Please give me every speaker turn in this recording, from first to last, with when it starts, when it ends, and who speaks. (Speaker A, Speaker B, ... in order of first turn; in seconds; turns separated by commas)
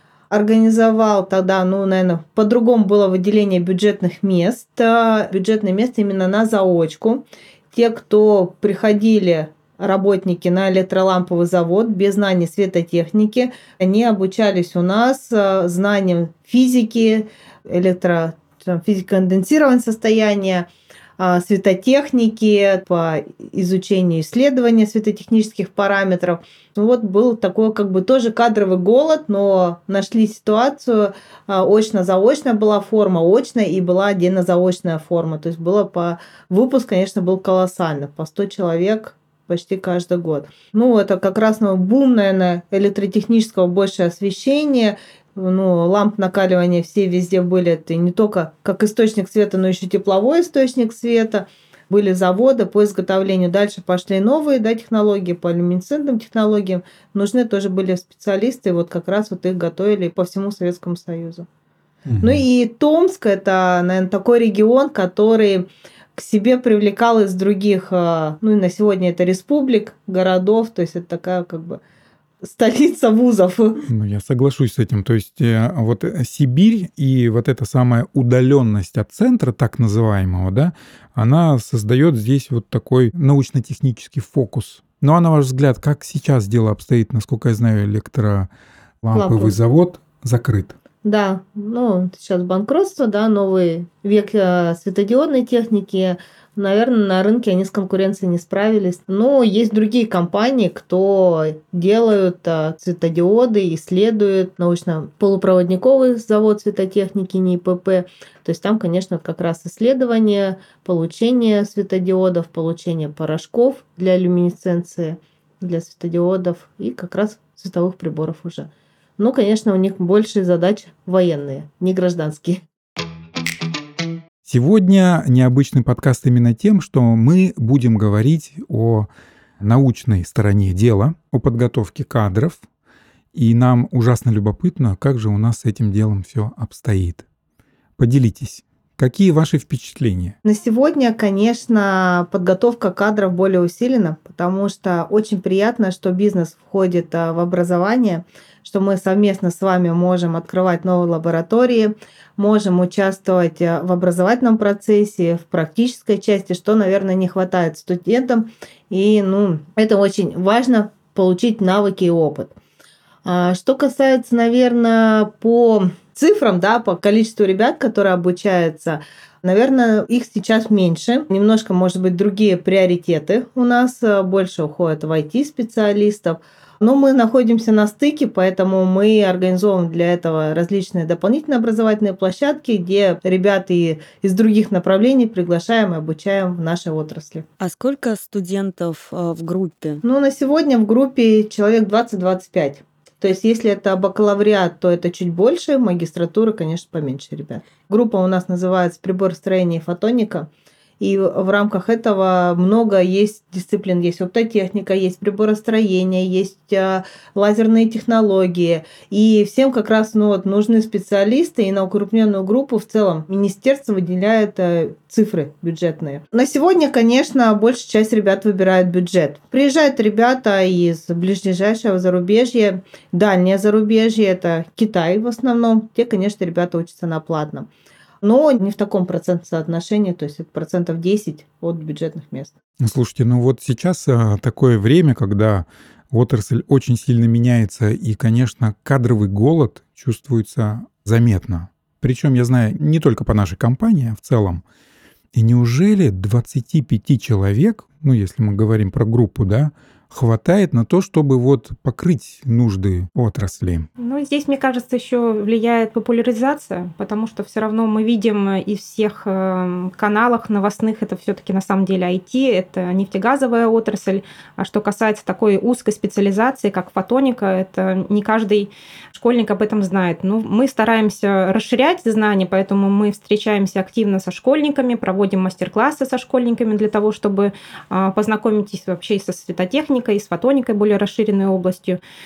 Speaker A: 0.3-61.5, Speaker B: 62.1-62.4, Speaker A: 62.2-71.8, Speaker A: 72.4-73.8, Speaker B: 73.9-88.5, Speaker B: 89.0-90.7, Speaker A: 89.1-89.6, Speaker A: 91.0-122.6, Speaker B: 124.4-129.1, Speaker B: 129.6-132.6, Speaker B: 133.3-137.2, Speaker B: 138.0-140.3, Speaker A: 140.4-162.5, Speaker A: 163.2-187.4, Speaker C: 187.6-190.0, Speaker A: 190.0-200.5, Speaker A: 201.0-227.7, Speaker A: 228.2-232.5, Speaker B: 232.8-244.6, Speaker B: 245.3-253.9, Speaker D: 254.0-282.0